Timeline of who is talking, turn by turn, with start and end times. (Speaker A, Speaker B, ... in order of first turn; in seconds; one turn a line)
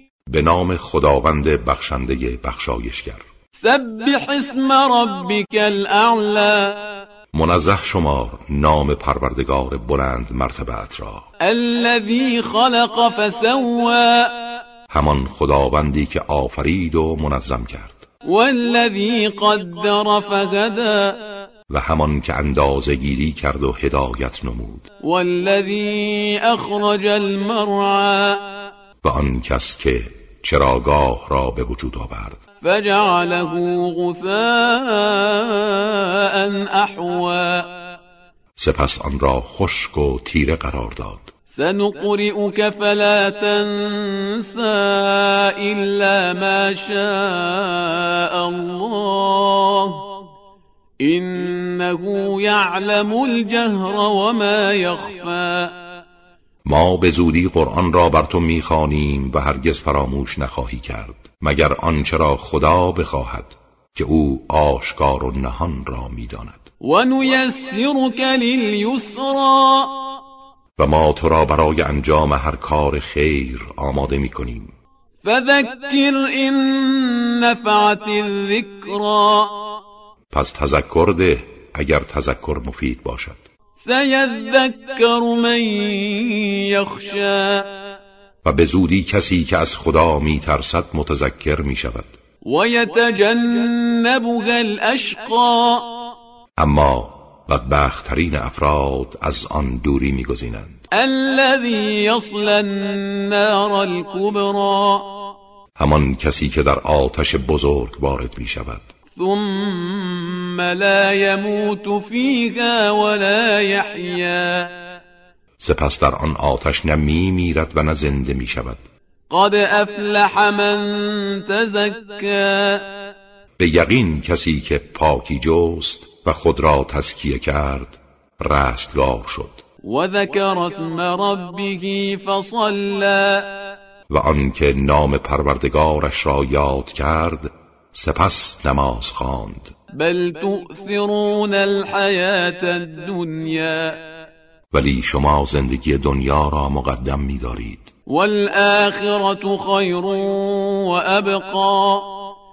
Speaker A: 0.3-3.2
Speaker B: 3.6-6.9
Speaker A: 7.3-11.3
Speaker B: 11.4-14.3
Speaker A: 14.9-18.0
Speaker B: 18.3-21.2
Speaker A: 21.7-24.9
Speaker B: 25.0-28.4
Speaker A: 29.0-32.4
Speaker B: 32.6-37.7
Speaker A: 38.6-41.3
Speaker B: 41.5-50.0
Speaker B: 51.0-55.7
Speaker A: 56.6-66.7
Speaker B: 66.8-70.0
Speaker A: 70.8-74.7
Speaker B: 75.2-79.6
Speaker A: 80.3-83.4
Speaker B: 83.8-87.7
Speaker A: 88.4-92.2
Speaker B: 92.5-95.9
Speaker A: 96.6-100.8
Speaker B: 100.9-105.1
Speaker A: 105.8-108.9
Speaker B: 109.2-114.7
Speaker A: 115.6-118.8
Speaker B: 119.3-122.9
Speaker A: 123.6-129.6
Speaker B: 129.8-133.5
Speaker A: 134.1-139.7
Speaker B: 139.9-144.0
Speaker A: 144.7-147.9
Speaker B: 148.1-152.1